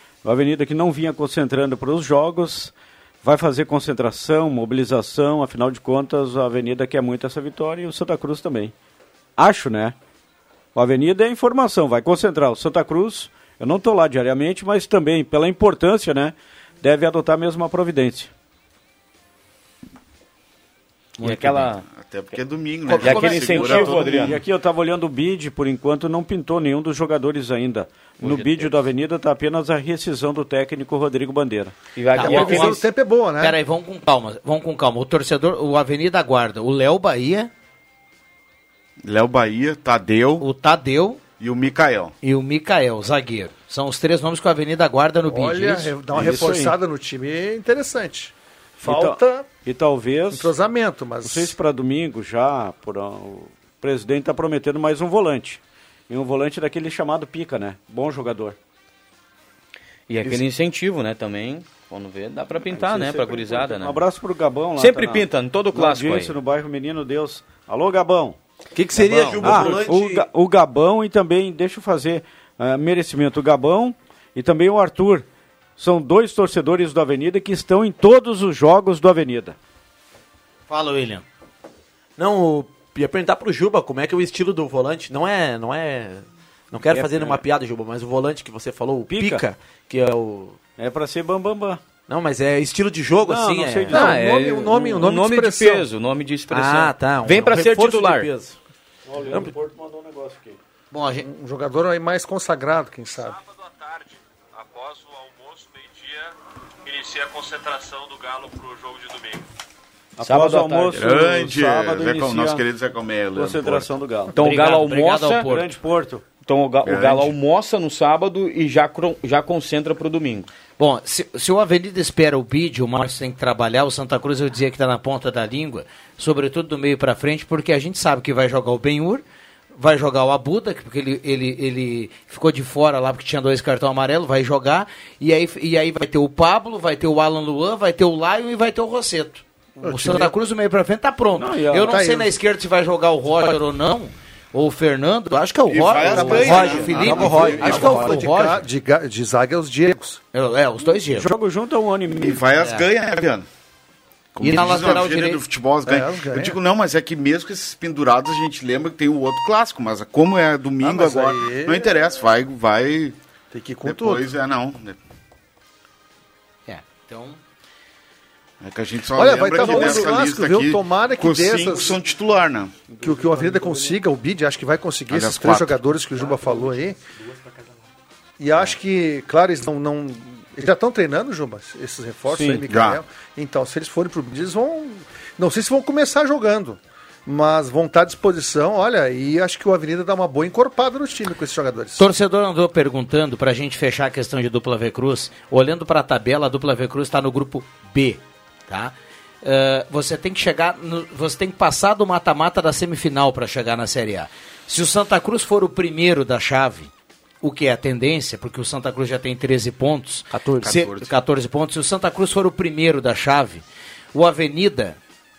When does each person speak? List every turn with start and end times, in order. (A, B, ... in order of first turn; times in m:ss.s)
0:00.2-0:08.7 A
0:09.4-0:09.9 A
0:10.7-0:18.3 A
0:21.2-0:21.7 A
0:21.2-0:21.8 B
0:21.9-0:24.4 C
0:22.9-0:23.9 D
0:23.0-0:24.4 B
0:23.7-0:31.7 A
0:28.2-0:28.7 B
0:32.0-0:32.8 B
0:32.1-0:32.8 D
0:32.2-0:33.6 E
0:33.4-0:37.5 D
0:39.0-0:40.4 C
0:40.4-0:41.2 D
0:41.4-0:42.1 C
0:42.2-0:45.9 D
0:45.3-0:49.5 E
0:46.1-0:46.7 A
0:48.8-0:50.5 A
0:50.3-0:51.5 E
0:51.2-0:58.6 A
1:00.1-1:04.0 B
1:02.7-1:08.4 A
1:04.8-1:06.3 B
1:08.7-1:10.3 F
1:09.0-1:09.8 B
1:09.4-1:15.2 A
1:15.8-1:19.6 A
1:20.7-1:21.2 D
1:22.2-1:30.6 F
1:26.9-1:27.4 A
1:29.1-1:29.4 A
1:30.8-1:31.8 A
1:32.1-1:34.0 F
1:33.3-1:34.2 A
1:33.9-1:35.9 E
1:33.9-1:38.3 B
1:36.5-1:38.6 F
1:39.1-1:40.6 A
1:39.3-1:39.5 F
1:40.9-1:41.3 D
1:41.2-1:43.4 E
1:46.9-1:49.4 G
1:50.2-1:52.6 A
1:50.2-1:51.2 B
1:50.9-1:54.0 C
1:53.3-1:54.3 A
1:54.3-1:55.8 D
1:54.3-1:55.5 B
1:55.4-1:56.2 A
1:56.4-2:00.5 B
1:56.8-1:57.3 C
2:00.8-2:09.2 D
2:09.8-2:28.6 D
2:19.8-2:20.3 E
2:21.4-2:22.0 A
2:21.8-2:22.3 E
2:25.7-2:28.1 C
2:26.1-2:30.2 E
2:26.1-2:28.2 F
2:30.3-2:31.3 D
2:31.1-2:32.4 A
2:32.2-2:33.4 C
2:32.6-2:32.8 D
2:34.3-2:43.2 C
2:34.4-2:35.4 D
2:35.8-2:36.6 E
2:40.8-2:41.9 E
2:43.5-2:44.3 E
2:43.8-2:45.0 C
2:46.7-2:47.4 D
2:48.6-2:52.8 C
2:49.1-2:52.0 E
2:52.9-2:53.9 A
2:53.0-2:57.0 E
2:55.1-2:55.8 C
2:58.4-3:12.0 E
3:02.3-3:02.6 A
3:02.7-3:03.0 C
3:12.0-3:26.9 D
3:27.4-3:33.6 D
3:30.3-3:30.7 F
3:30.6-3:31.1 C
3:34.1-3:35.0 D